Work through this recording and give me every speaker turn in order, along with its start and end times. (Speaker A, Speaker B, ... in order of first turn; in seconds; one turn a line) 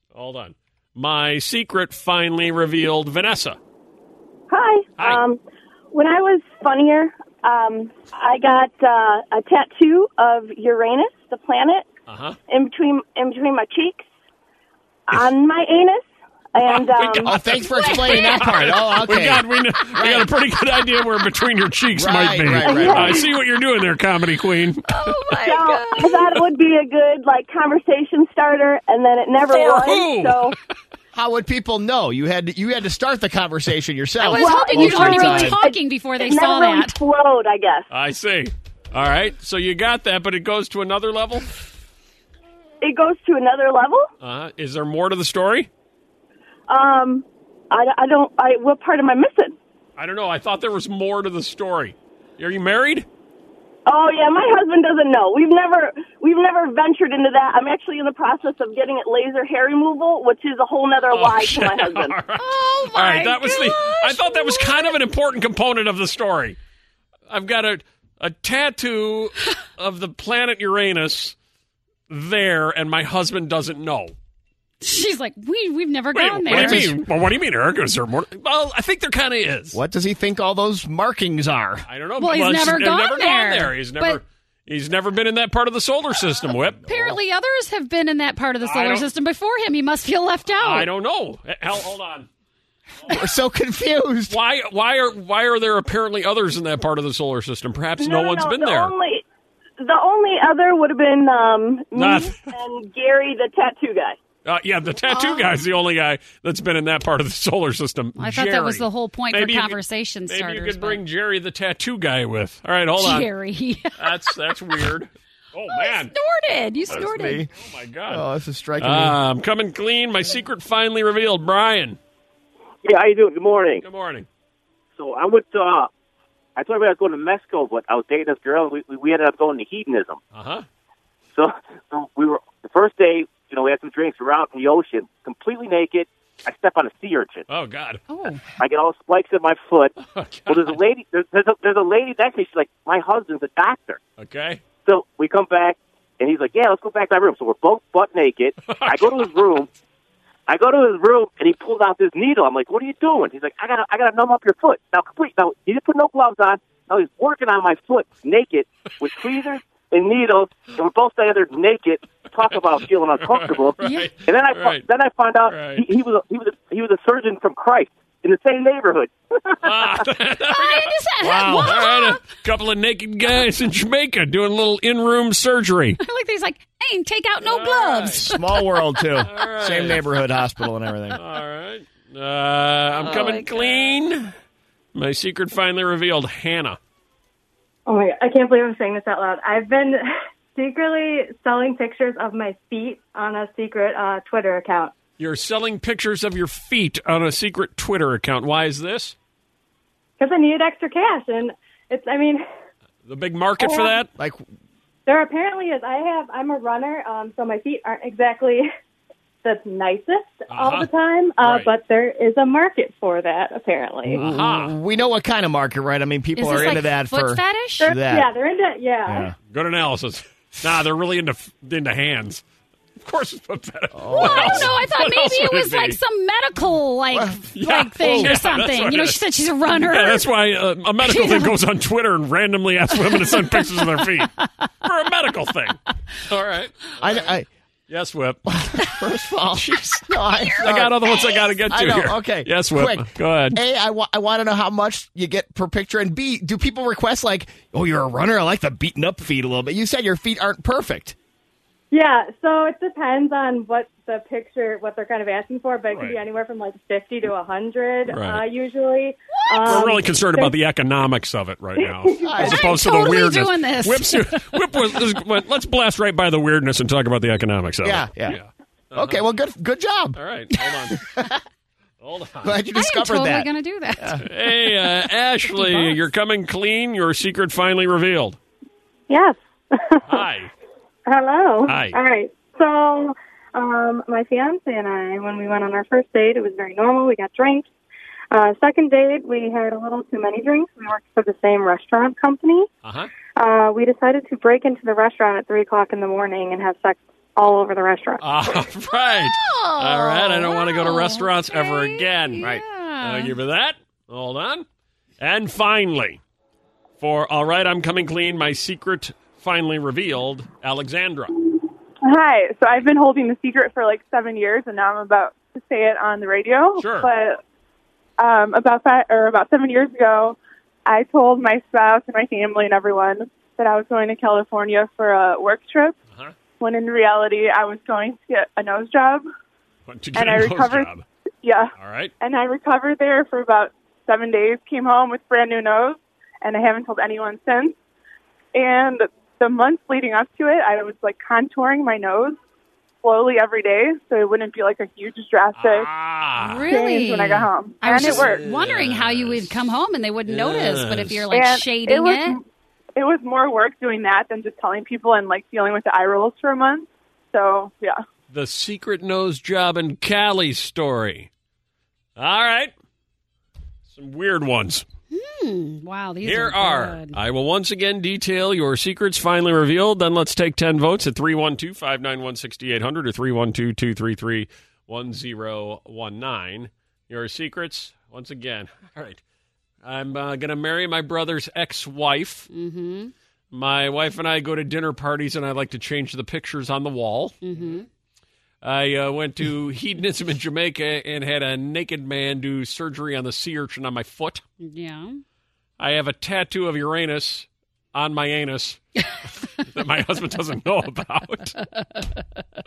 Speaker A: 0.1-3.6
Speaker B: 4.5-5.4
Speaker A: 5.0-5.2
Speaker B: 5.9-11.9
Speaker A: 12.1-12.4
Speaker B: 12.5-14.1
Speaker B: 15.1-17.3
Speaker A: 16.6-25.1
Speaker C: 17.2-20.3
Speaker D: 17.8-18.4
Speaker C: 22.0-23.3
Speaker B: 22.6-23.3
Speaker D: 24.9-26.4
Speaker B: 25.4-30.6
Speaker A: 29.5-30.6
Speaker C: 31.1-35.6
Speaker D: 34.2-37.0
Speaker B: 34.4-37.9
Speaker A: 34.8-35.5
Speaker A: 37.9-41.5
Speaker B: 42.8-44.1
Speaker A: 44.2-45.7
Speaker B: 46.7-49.6
Speaker A: 50.0-53.1
Speaker B: 53.9-62.1
Speaker A: 61.1-66.6
Speaker D: 62.4-65.0
Speaker A: 67.3-71.3
Speaker A: 72.1-74.1
Speaker D: 74.8-76.9
Speaker A: 76.1-79.8
Speaker C: 76.5-77.0
Speaker C: 79.7-81.9
Speaker A: 81.9-86.8
Speaker D: 82.2-84.2
Speaker D: 86.8-90.9
Speaker A: 88.6-89.1
Speaker A: 90.6-92.3
Speaker C: 93.1-94.4
Speaker A: 94.3-98.9
Speaker B: 98.0-99.2
Speaker B: 99.8-104.2
Speaker A: 101.9-102.5
Speaker A: 104.5-113.3
Speaker D: 105.1-105.5
Speaker D: 108.2-111.0
Speaker D: 113.0-114.3
Speaker A: 114.0-116.1
Speaker D: 115.7-117.4
Speaker C: 116.9-117.5
Speaker A: 117.5-118.3
Speaker C: 118.1-119.2
Speaker A: 118.8-122.0
Speaker E: 122.8-123.8
Speaker A: 123.8-124.3
Speaker E: 125.0-125.9
Speaker E: 126.6-130.2
Speaker A: 130.3-130.7
Speaker E: 131.3-137.4
Speaker A: 137.5-138.1
Speaker D: 138.1-138.4
Speaker E: 138.6-139.9
Speaker A: 140.0-140.8
Speaker E: 140.5-144.0
Speaker A: 144.2-144.6
Speaker E: 144.8-149.7
Speaker A: 148.7-149.4
Speaker E: 150.5-169.6
Speaker A: 163.2-164.8
Speaker D: 163.8-164.1
Speaker A: 165.5-165.9
Speaker A: 169.6-176.0
Speaker D: 170.5-172.2
Speaker D: 176.0-178.6
Speaker A: 177.4-178.3
Speaker C: 178.2-181.2
Speaker A: 179.2-180.1
Speaker A: 181.1-184.3
Speaker D: 183.0-183.9
Speaker A: 184.9-186.8
Speaker F: 187.9-190.0
Speaker F: 190.6-194.9
Speaker A: 195.2-199.2
Speaker F: 200.2-202.4
Speaker A: 203.1-204.1
Speaker F: 203.6-203.9
Speaker C: 204.2-204.5
Speaker F: 205.1-208.7
Speaker F: 209.4-214.2
Speaker A: 210.5-210.9
Speaker A: 211.4-211.7
Speaker A: 214.1-214.8
Speaker C: 214.1-218.3
Speaker D: 216.4-218.0
Speaker F: 217.8-219.3
Speaker C: 219.1-219.3
Speaker A: 219.5-222.4
Speaker A: 223.0-226.0
Speaker C: 223.9-224.7
Speaker D: 224.2-230.2
Speaker C: 227.1-228.4
Speaker A: 227.5-234.3
Speaker D: 231.0-231.6
Speaker D: 233.1-234.6
Speaker A: 234.8-237.3
Speaker C: 237.0-237.5
Speaker A: 237.9-238.4
Speaker C: 238.5-241.0
Speaker A: 239.6-240.1
Speaker A: 240.6-243.6
Speaker C: 241.7-251.2
Speaker F: 251.9-260.5
Speaker A: 255.9-256.2
Speaker A: 258.1-258.4
Speaker D: 259.4-259.8
Speaker A: 259.7-269.2
Speaker C: 262.2-262.7
Speaker D: 262.4-264.4
Speaker C: 267.8-268.4
Speaker C: 268.9-270.2
Speaker A: 270.2-271.1
Speaker A: 272.0-272.6
Speaker C: 272.4-274.2
Speaker D: 272.8-274.3
Speaker A: 274.2-278.4
Speaker D: 275.5-275.9
Speaker F: 279.1-280.3
Speaker A: 280.1-280.5
Speaker F: 281.1-287.7
Speaker A: 281.7-282.0
Speaker F: 288.3-292.7
Speaker A: 292.8-293.1
Speaker F: 293.4-298.2
Speaker A: 298.2-304.7
Speaker D: 299.1-303.4
Speaker A: 305.2-306.2
Speaker A: 307.0-311.4
Speaker G: 312.1-317.4
Speaker A: 316.8-317.1
Speaker G: 318.2-326.0
Speaker G: 326.6-329.2
Speaker A: 329.9-331.0
Speaker G: 330.1-330.9
Speaker G: 331.4-337.8
Speaker A: 331.8-332.1
Speaker G: 338.5-342.4
Speaker G: 343.0-345.9
Speaker A: 345.6-346.7
Speaker D: 346.4-352.4
Speaker G: 346.7-348.4
Speaker A: 347.9-349.5
Speaker A: 350.3-351.3
Speaker G: 351.3-352.4
Speaker G: 353.0-358.0
Speaker A: 358.3-361.3
Speaker A: 362.2-362.7
Speaker A: 363.9-364.9
Speaker D: 365.1-367.2
Speaker A: 366.2-379.2
Speaker A: 379.8-382.5
Speaker D: 382.5-383.1
Speaker A: 383.5-387.4
Speaker D: 387.4-387.9
Speaker A: 388.6-394.4
Speaker D: 394.6-395.2
Speaker A: 395.8-401.6
Speaker D: 401.8-402.1